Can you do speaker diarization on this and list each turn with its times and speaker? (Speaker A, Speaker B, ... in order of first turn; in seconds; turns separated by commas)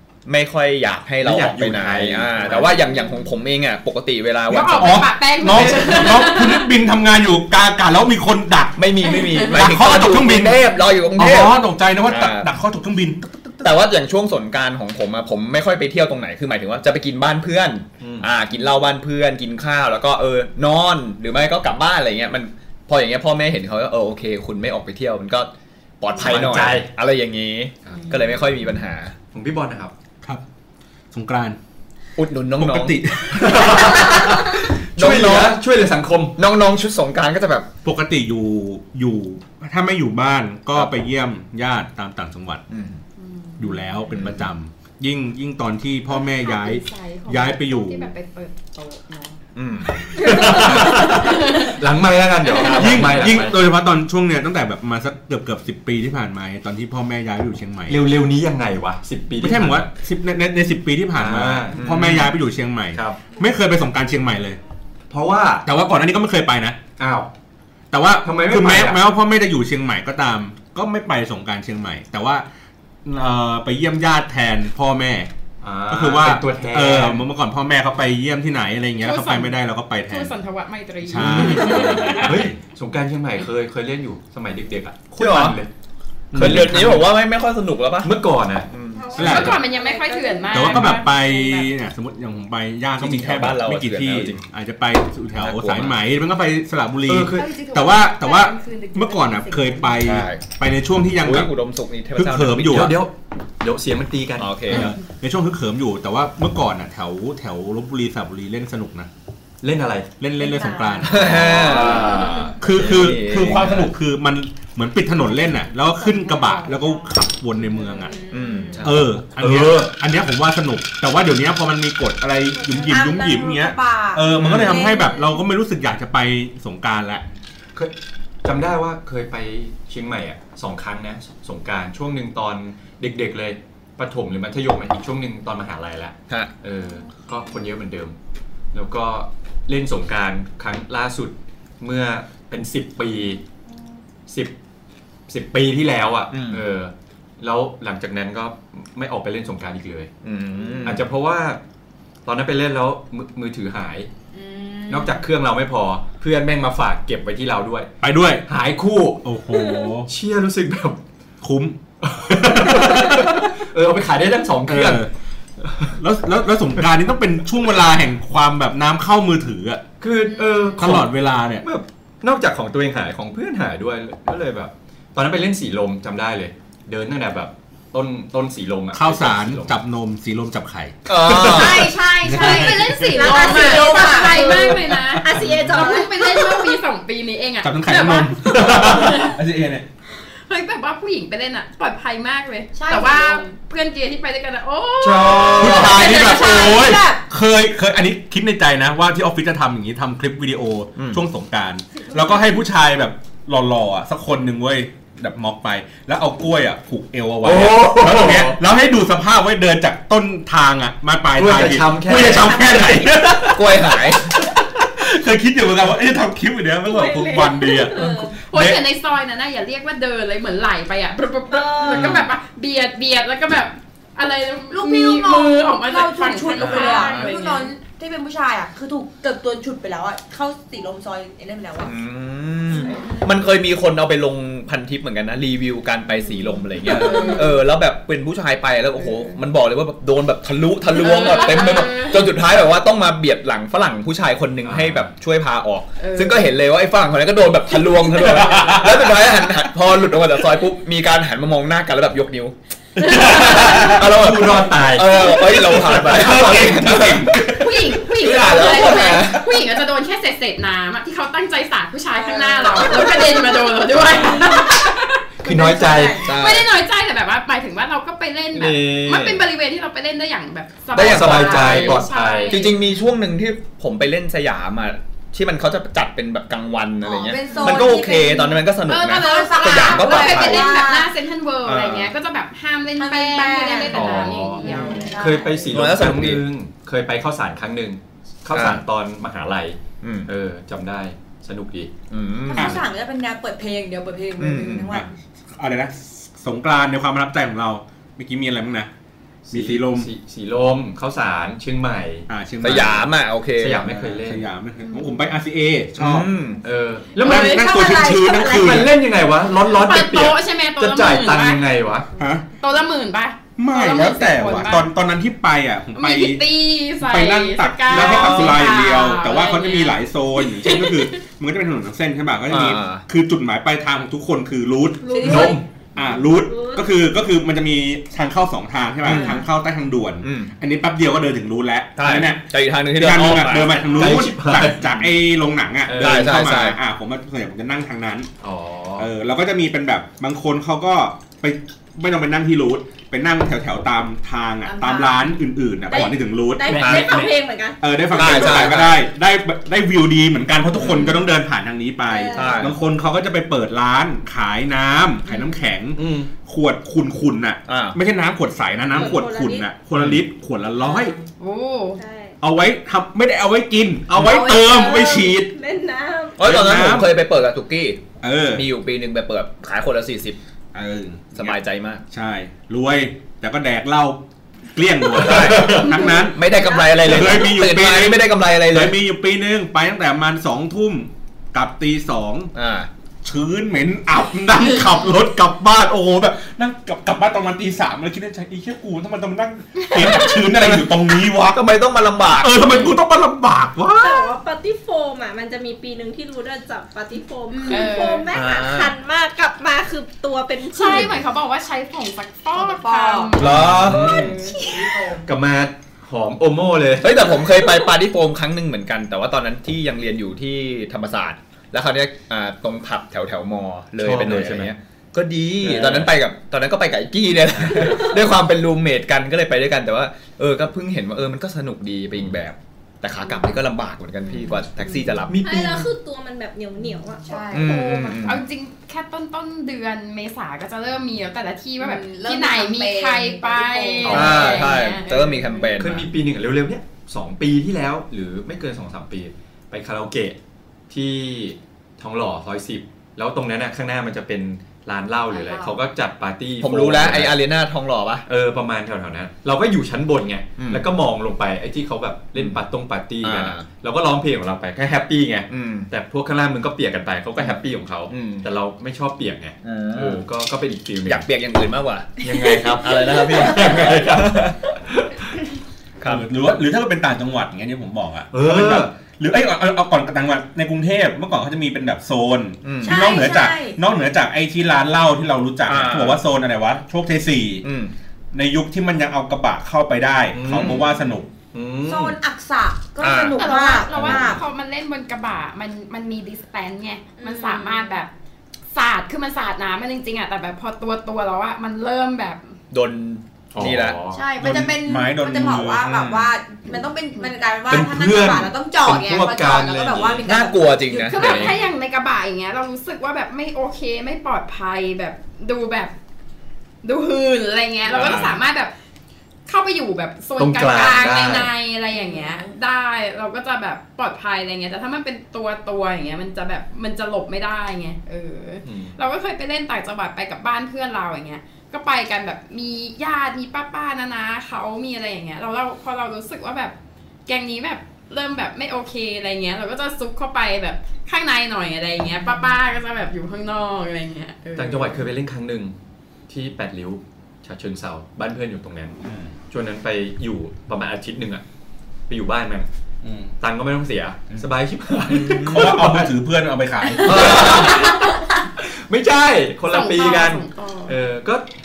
Speaker A: 0.2-6.1, Speaker B: 1.2-2.8, Speaker C: 4.5-8.8, Speaker D: 4.5-6.7, Speaker A: 8.8-12.5, Speaker D: 9.0-9.6, Speaker C: 9.4-10.6, Speaker C: 11.2-13.8, Speaker A: 13.6-29.1, Speaker B: 18.0-18.3, Speaker B: 26.2-26.9, Speaker B: 27.9-28.2, Speaker B: 29.3-29.9, Speaker C: 31.1-31.6, Speaker A: 32.2-34.3, Speaker C: 32.6-33.7, Speaker B: 33.3-36.4, Speaker A: 35.0-35.6, Speaker A: 36.4-37.7, Speaker C: 37.8-42.6, Speaker A: 42.7-43.0, Speaker D: 43.2-44.1, Speaker C: 43.6-48.1, Speaker A: 44.1-44.5, Speaker D: 46.1-49.4, Speaker A: 49.5-50.7, Speaker B: 50.2-53.6, Speaker D: 50.2-51.7, Speaker A: 52.6-53.4, Speaker C: 52.6-58.0, Speaker B: 57.9-59.9, Speaker C: 59.4-64.6, Speaker B: 61.1-62.3, Speaker A: 61.8-62.3, Speaker B: 62.9-63.2, Speaker B: 65.1-65.6, Speaker C: 65.6-66.8, Speaker B: 67.0-67.3, Speaker C: 67.9-72.4, Speaker B: 68.2-69.0, Speaker C: 73.0-75.3, Speaker B: 75.6-77.2, Speaker C: 75.9-80.3, Speaker D: 79.0-82.3, Speaker C: 81.0-82.6, Speaker B: 81.2-85.7, Speaker A: 85.2-85.6, Speaker B: 86.3-87.0, Speaker C: 86.3-87.0, Speaker A: 86.3-89.5, Speaker B: 88.0-88.7, Speaker E: 88.9-90.5, Speaker C: 89.1-89.6, Speaker D: 89.2-91.7, Speaker F: 89.8-90.6, Speaker C: 90.5-101.5, Speaker A: 93.0-94.4, Speaker A: 95.3-96.0, Speaker B: 97.1-97.5, Speaker D: 97.3-100.0, Speaker A: 100.0-100.5, Speaker A: 101.2-102.9, Speaker C: 102.1-103.0, Speaker B: 102.7-104.9, Speaker A: 104.4-104.9, Speaker C: 104.7-109.1, Speaker B: 109.6-110.1, Speaker C: 110.2-111.7, Speaker F: 110.4-111.0, Speaker B: 111.0-112.6, Speaker A: 111.0-113.9, Speaker C: 112.6-118.2, Speaker F: 116.0-116.9, Speaker F: 117.7-118.9, Speaker A: 118.3-119.0, Speaker C: 118.8-127.2, Speaker B: 119.4-119.9, Speaker F: 122.6-125.4, Speaker B: 124.3-124.8, Speaker B: 128.4-138.2, Speaker B: 138.7-143.4, Speaker B: 144.3-144.5, Speaker B: 145.3-150.1, Speaker A: 146.3-146.6, Speaker A: 150.2-151.0, Speaker B: 150.8-151.6, Speaker B: 152.2-154.1, Speaker F: 154.3-155.2, Speaker B: 154.9-157.9, Speaker C: 158.0-158.4, Speaker B: 158.5-159.2, Speaker C: 159.2-160.1, Speaker E: 159.5-159.9, Speaker B: 160.1-161.0, Speaker C: 161.4-161.8, Speaker B: 162.0-165.0, Speaker C: 162.3-163.5, Speaker C: 164.7-165.1, Speaker B: 165.6-165.9, Speaker C: 165.9-169.8, Speaker B: 170.0-171.1, Speaker F: 170.3-170.8, Speaker C: 170.8-171.7, Speaker B: 171.6-179.8, Speaker C: 178.9-181.0, Speaker A: 181.1-181.9, Speaker F: 181.4-184.8, Speaker C: 182.2-183.3, Speaker D: 182.3-189.3, Speaker E: 183.5-184.7, Speaker C: 185.1-185.8, Speaker E: 185.2-186.5, Speaker C: 187.6-189.8, Speaker D: 190.3-196.6, Speaker F: 192.7-193.5, Speaker B: 195.0-196.2, Speaker C: 195.6-218.8, Speaker F: 195.6-197.2, Speaker A: 200.9-201.2, Speaker B: 207.4-208.6, Speaker B: 211.3-213.2, Speaker A: 213.5-214.3, Speaker E: 216.8-218.3, Speaker D: 218.5-227.7, Speaker E: 221.5-222.2, Speaker A: 221.9-222.3, Speaker F: 224.7-231.9, Speaker A: 226.7-227.2, Speaker A: 231.8-257.3, Speaker F: 232.8-233.2, Speaker D: 236.8-237.6, Speaker F: 237.0-237.4, Speaker D: 240.9-242.3, Speaker B: 244.6-245.1, Speaker D: 246.0-246.4, Speaker C: 248.1-249.2, Speaker C: 253.0-254.0, Speaker B: 253.1-257.4, Speaker C: 255.8-257.9, Speaker D: 257.5-265.2, Speaker A: 258.2-259.5, Speaker F: 262.2-266.4, Speaker B: 265.4-266.3, Speaker A: 266.2-266.7, Speaker D: 266.3-272.7, Speaker B: 268.5-269.4, Speaker A: 270.9-280.7, Speaker B: 270.9-272.7, Speaker F: 277.0-281.1, Speaker D: 277.5-277.8, Speaker D: 278.9-285.1, Speaker B: 281.6-282.1, Speaker F: 283.0-285.7, Speaker B: 283.9-291.9, Speaker A: 285.7-286.4, Speaker A: 288.5-288.8, Speaker A: 290.0-290.3, Speaker A: 292.1-292.8, Speaker F: 292.5-295.1, Speaker C: 292.6-292.8, Speaker A: 294.4-295.0, Speaker C: 294.9-298.9, Speaker B: 299.5-302.3, Speaker C: 299.5-300.1, Speaker C: 302.3-303.1, Speaker A: 302.6-303.9, Speaker B: 303.6-304.5, Speaker C: 303.9-306.3, Speaker A: 305.9-306.6, Speaker B: 306.6-307.7, Speaker C: 307.2-308.9, Speaker F: 307.2-308.8, Speaker B: 308.4-312.1, Speaker D: 309.7-311.6, Speaker C: 312.2-312.4, Speaker D: 312.6-314.9, Speaker C: 313.6-316.4, Speaker D: 315.9-321.2, Speaker C: 317.0-338.3, Speaker A: 318.1-318.3, Speaker A: 322.5-323.0, Speaker F: 325.1-325.6, Speaker E: 325.1-326.9, Speaker B: 325.2-325.6, Speaker A: 329.0-329.4, Speaker A: 330.2-330.5, Speaker A: 332.0-334.0, Speaker B: 333.9-335.1, Speaker B: 335.9-336.3, Speaker A: 336.0-336.8, Speaker B: 338.4-339.1, Speaker C: 339.0-347.3, Speaker F: 344.7-345.2, Speaker E: 345.9-348.8, Speaker A: 346.7-347.1, Speaker B: 346.7-347.3, Speaker C: 347.8-361.1, Speaker A: 348.1-349.0, Speaker A: 350.8-351.1, Speaker E: 352.1-352.7, Speaker A: 352.3-352.8, Speaker B: 355.9-356.3, Speaker A: 357.7-358.0, Speaker E: 358.9-359.7, Speaker D: 361.4-362.0, Speaker E: 362.0-362.4, Speaker C: 362.4-365.5, Speaker E: 364.2-366.4, Speaker F: 364.2-365.1, Speaker A: 366.4-370.4, Speaker C: 366.4-367.1, Speaker C: 368.2-368.6, Speaker C: 370.7-371.6, Speaker A: 371.3-372.0, Speaker C: 372.1-374.2, Speaker C: 374.7-382.5, Speaker A: 375.2-378.9, Speaker A: 382.5-382.9, Speaker C: 383.2-391.6, Speaker D: 389.9-390.3, Speaker A: 390.5-390.8, Speaker A: 391.5-392.8, Speaker C: 392.3-394.3, Speaker E: 394.0-401.2, Speaker F: 397.5-398.0, Speaker D: 397.7-398.2, Speaker A: 398.3-398.9, Speaker D: 400.7-404.3, Speaker F: 402.5-403.4, Speaker A: 403.4-404.2, Speaker C: 403.4-404.0, Speaker B: 403.6-404.4, Speaker F: 404.1-405.3, Speaker B: 405.2-407.3, Speaker A: 407.0-425.5, Speaker B: 414.0-414.7, Speaker B: 415.6-416.1, Speaker B: 417.5-418.0, Speaker B: 425.3-425.9, Speaker E: 425.4-428.1, Speaker F: 427.2-428.0, Speaker A: 427.5-428.4, Speaker D: 428.1-435.7, Speaker F: 431.8-434.4, Speaker B: 434.0-434.7, Speaker A: 434.0-436.1, Speaker B: 435.8-440.4, Speaker B: 440.9-447.4, Speaker F: 445.3-445.8, Speaker A: 446.6-448.2, Speaker B: 448.3-461.2, Speaker A: 450.6-450.9, Speaker A: 453.2-453.6, Speaker A: 455.5-455.9, Speaker A: 458.1-458.5, Speaker A: 459.6-460.2, Speaker A: 461.1-464.6, Speaker B: 462.2-465.4, Speaker A: 466.0-466.2, Speaker C: 466.0-477.6, Speaker B: 468.3-468.9, Speaker A: 472.6-473.0, Speaker F: 472.8-473.8, Speaker A: 475.7-476.2, Speaker A: 477.6-477.9, Speaker C: 478.3-481.3, Speaker B: 480.3-480.9, Speaker A: 480.5-480.8, Speaker B: 481.5-482.2, Speaker F: 481.8-484.4, Speaker A: 483.0-483.4, Speaker D: 483.3-488.1, Speaker F: 487.2-487.9, Speaker D: 488.7-492.5, Speaker A: 492.7-494.0, Speaker B: 493.5-494.2, Speaker F: 494.1-501.6, Speaker C: 494.4-496.1, Speaker A: 495.9-496.3, Speaker B: 497.7-500.3, Speaker A: 500.2-501.5, Speaker D: 501.1-505.9, Speaker D: 506.8-508.7, Speaker A: 507.9-508.4, Speaker D: 509.5-526.7, Speaker B: 510.4-511.5, Speaker F: 511.9-512.5, Speaker B: 518.6-519.0, Speaker D: 527.2-535.0, Speaker B: 534.5-535.7, Speaker B: 536.3-541.4, Speaker C: 539.0-539.3, Speaker B: 542.1-542.7, Speaker C: 543.0-543.3, Speaker B: 543.4-546.1, Speaker A: 545.1-545.9, Speaker C: 545.3-547.7, Speaker B: 547.0-551.5, Speaker D: 549.7-550.9